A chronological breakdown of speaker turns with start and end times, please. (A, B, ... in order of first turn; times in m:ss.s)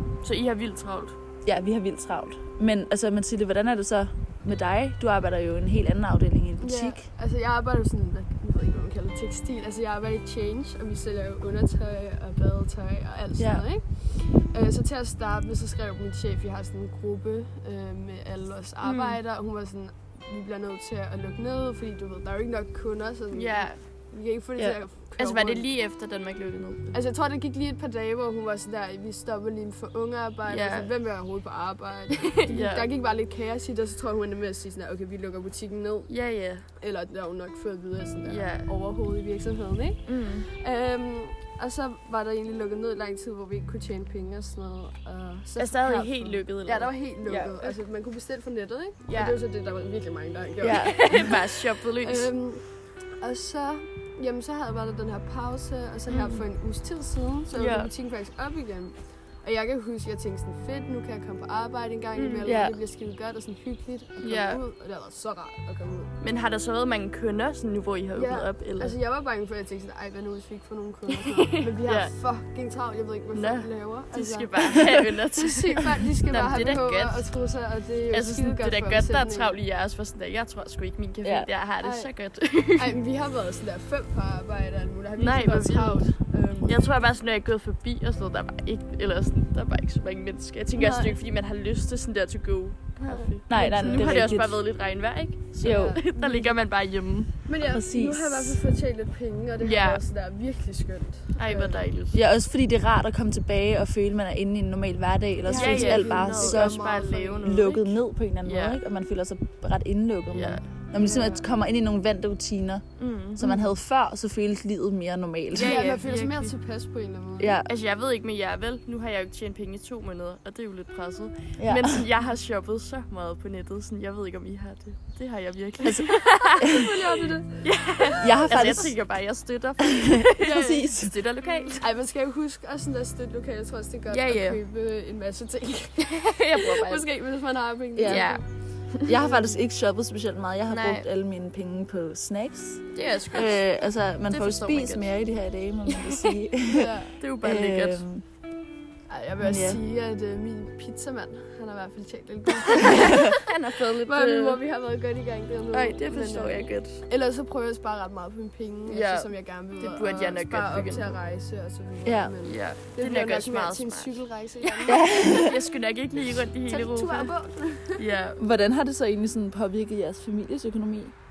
0:00.2-0:01.2 A
0:01.4-0:07.1 B
0:06.6-0:25.7 C
0:13.4-0:13.6 B
0:18.8-0:19.2 A
0:23.3-0:23.8 A
0:24.6-0:27.0 A
0:26.9-0:36.1 C
0:30.4-0:30.9 A
0:32.4-0:32.9 A
0:36.1-0:36.7 A
0:36.6-1:06.1 C
0:38.2-0:38.7 A
0:40.0-0:40.5 A
0:45.6-0:47.8 A
0:49.0-0:49.4 A
0:50.6-0:51.3 B
0:50.8-0:52.3 A
0:56.1-0:56.4 A
0:57.5-0:57.9 A
1:02.1-1:02.5 A
1:02.4-1:02.8 B
1:04.2-1:04.6 A
1:06.2-1:09.0 A
1:08.1-1:19.6 C
1:11.2-1:12.1 A
1:13.3-1:17.3 A
1:18.1-1:23.0 A
1:21.2-1:21.5 B
1:21.8-1:26.8 C
1:25.2-1:37.3 A
1:30.8-1:31.1 C
1:33.0-1:34.4 C
1:33.5-1:34.6 B
1:35.6-1:36.0 B
1:35.6-1:36.6 C
1:37.4-1:41.9 C
1:37.7-1:38.6 B
1:39.6-1:40.0 A
1:41.3-1:42.2 A
1:42.1-1:46.8 B
1:45.4-1:47.4 C
1:45.5-1:48.8 A
1:47.4-1:55.8 B
1:50.3-1:50.6 A
1:50.9-1:51.5 C
1:53.0-1:53.4 A
1:53.4-1:53.7 C
1:55.5-1:56.5 A
1:55.6-1:57.6 C
1:57.4-1:57.7 B
1:57.6-2:06.9 A
2:01.6-2:02.0 B
2:06.6-2:07.7 C
2:07.6-2:11.9 A
2:08.2-2:09.0 B
2:10.3-2:11.2 B
2:10.4-2:10.8 C
2:11.8-2:18.5 C
2:14.1-2:14.6 A
2:16.0-2:17.1 A
2:17.9-2:18.3 B
2:18.0-2:19.6 A
2:19.0-2:28.2 B
2:20.7-2:21.1 A
2:22.9-2:23.7 A
2:24.3-2:25.2 A
2:26.7-2:27.2 C
2:27.2-2:28.0 A
2:29.1-2:33.4 C
2:29.4-2:29.8 B
2:32.8-2:34.6 A
2:34.0-2:45.3 C
2:35.7-2:37.0 A
2:38.8-2:41.2 A
2:42.0-2:42.4 B
2:42.4-2:47.3 A
2:44.8-2:45.6 B
2:46.7-2:48.0 C
2:47.9-2:48.4 A
2:48.4-2:51.1 B